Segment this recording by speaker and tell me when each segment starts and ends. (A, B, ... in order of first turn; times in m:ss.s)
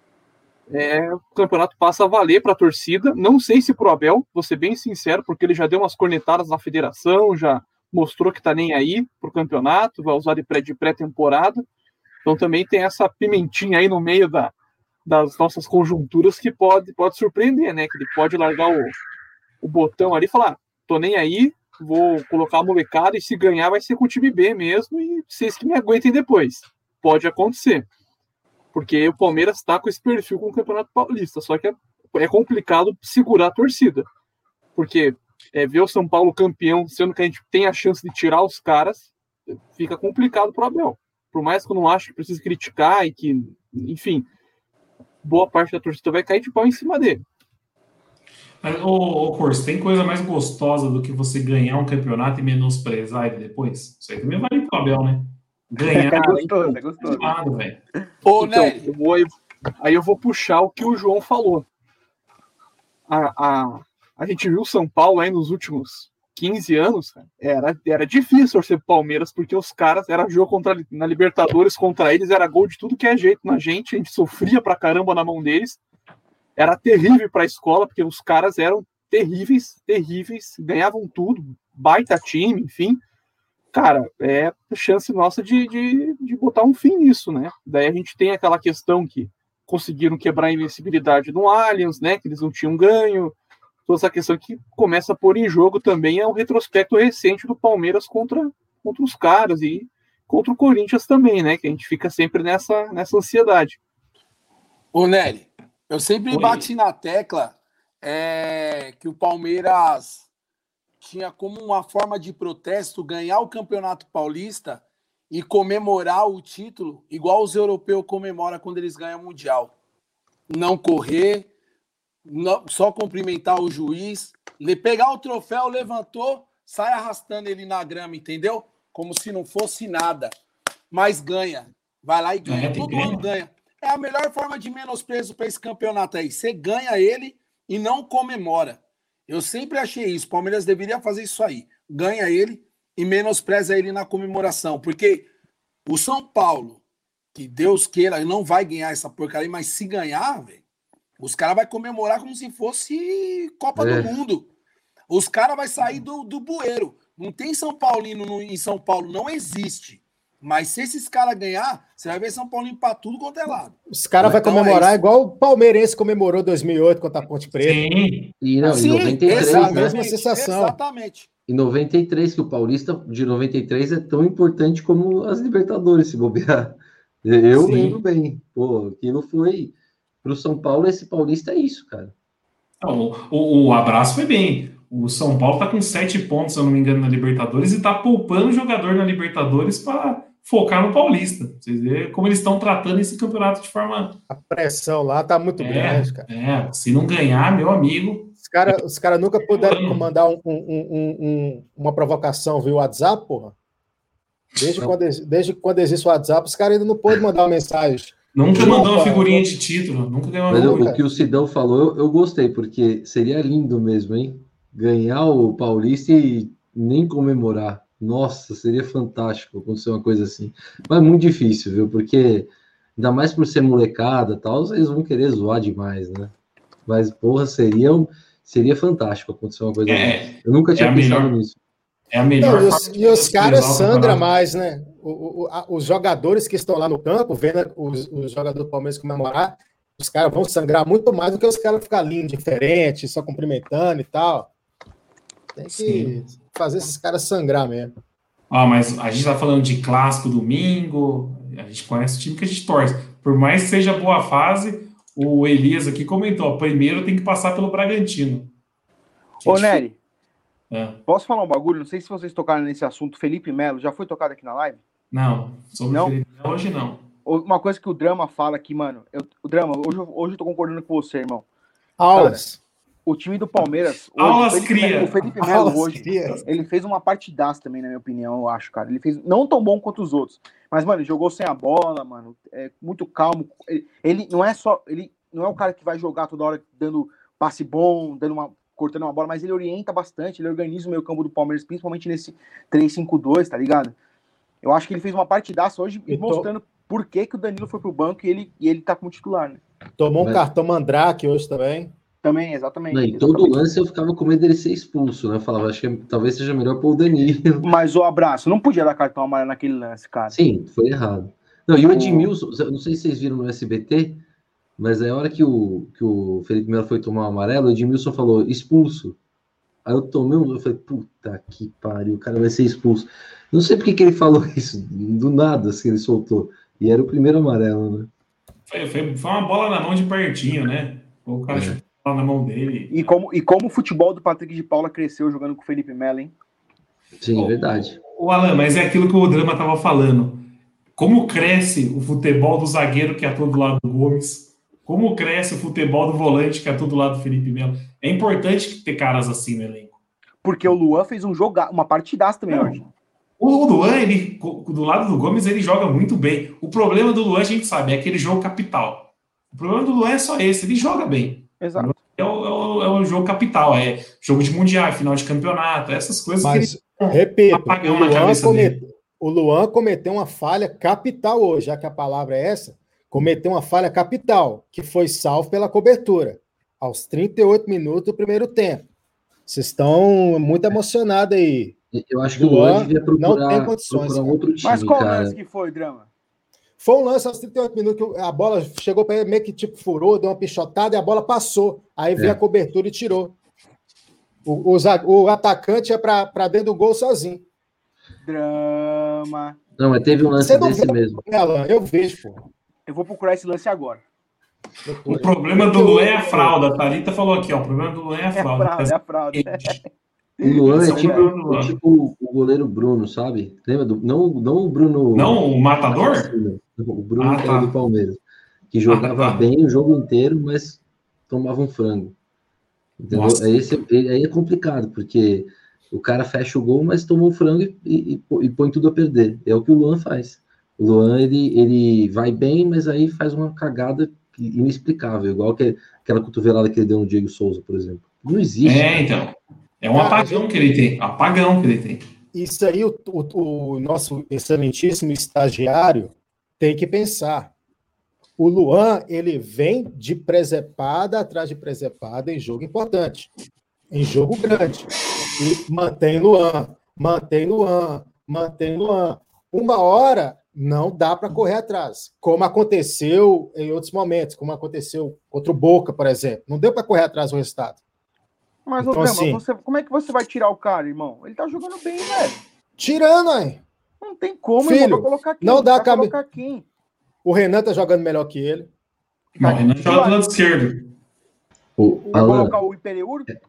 0:00.7-0:11.6 A
0:12.2-0:14.5 A
0:15.0-0:18.9 A
0:19.6-0:27.8 A
0:28.7-0:34.1 A
0:34.8-0:44.2 A
0:45.2-0:47.2 A
0:48.6-0:57.8 B
0:55.8-0:57.4 C
0:58.2-0:58.9 D
0:58.4-1:01.6 A
1:03.1-1:15.8 A
1:16.6-1:23.0 A
1:23.7-1:33.3 A
1:33.8-1:43.8 A
1:44.9-1:50.3 D
1:46.3-1:46.7 B
1:51.0-1:59.7 D
2:00.5-2:01.5 D
2:02.2-2:10.3 D
2:10.9-2:25.3 D
2:12.4-2:13.2 B
2:25.8-2:26.8 D
2:27.3-2:30.6 D
2:31.2-2:34.5 D
2:33.8-2:34.1 E
2:35.1-2:43.7 D
2:43.9-2:47.8 F
2:44.3-2:44.9 D
2:47.6-2:48.3 B
2:48.4-2:50.0 E
2:48.6-2:51.3 D
2:48.6-2:50.8 F
2:51.5-3:02.1 E
2:57.5-2:58.0 B
3:02.8-3:14.2 B
3:14.3-3:16.2 F
3:15.6-3:18.8 B
3:18.4-3:23.5 F
3:19.5-3:20.0 B
3:24.6-3:29.5 F
3:28.3-3:30.9 B
3:30.5-3:46.3 E
3:30.5-3:31.0 F
3:46.8-3:51.6 E
3:49.9-3:51.4 B
3:52.1-3:54.2 B
3:52.4-4:04.5 F
4:05.5-4:07.9 F
4:05.7-4:06.2 B
4:08.5-4:18.5 B
4:19.4-4:19.8 B
4:19.4-4:20.0 C
4:20.7-4:21.0 B
4:21.1-4:24.8 C
4:25.1-4:27.0 B
4:27.2-4:31.4 C
4:32.0-4:32.6 F
4:32.1-4:32.4 C
4:33.0-4:54.0 C
4:34.2-4:35.7 B
4:35.4-4:36.4 F
4:54.6-4:59.6 C
4:56.1-4:56.5 F
5:00.0-5:01.9 F
5:02.2-5:03.6 C
5:02.9-5:07.7 E
5:07.6-5:10.4 C
5:10.3-5:14.2 E
5:11.9-5:12.3 C
5:14.8-5:19.2 E
5:19.8-5:28.1 E
5:28.7-5:33.1 B
5:31.5-5:31.8 E
5:32.9-5:36.3 C
5:37.2-5:38.0 E
5:37.3-5:50.0 B
5:50.4-5:52.9 C
5:52.5-5:52.8 B
5:53.4-6:08.8 B
6:01.6-6:02.0 C
6:06.4-6:18.9 F
6:19.5-6:21.7 F
6:21.9-6:25.4 E
6:22.3-6:24.4 F
6:24.6-6:26.1 C
6:26.8-6:33.3 F
6:34.4-6:37.4 F
6:38.2-6:39.6 C
6:39.8-6:41.2 E
6:40.3-6:42.4 F
6:42.8-6:44.0 C
6:44.8-6:46.6 F
6:45.1-6:49.8 B
6:48.3-6:49.9 C
6:50.4-6:51.3 C
6:50.4-6:58.2 E
6:50.7-6:51.7 B
6:55.1-6:56.3 B
6:57.2-6:57.7 B
6:58.7-7:02.2 E
6:58.9-6:59.5 B
7:03.0-7:19.0 E
7:03.1-7:03.5 B
7:18.6-7:22.0 B
7:19.9-7:20.5 F
7:22.3-7:27.5 F
7:28.4-7:33.3 F
7:33.9-7:47.8 F
7:48.6-7:52.4 C
7:48.8-7:49.4 F
7:52.8-7:53.6 F
7:54.0-7:56.6 C
7:54.6-7:56.1 F
7:57.2-7:58.7 F
7:59.4-8:00.9 B
7:59.4-8:00.4 C
8:01.8-8:02.6 E
8:02.1-8:03.3 C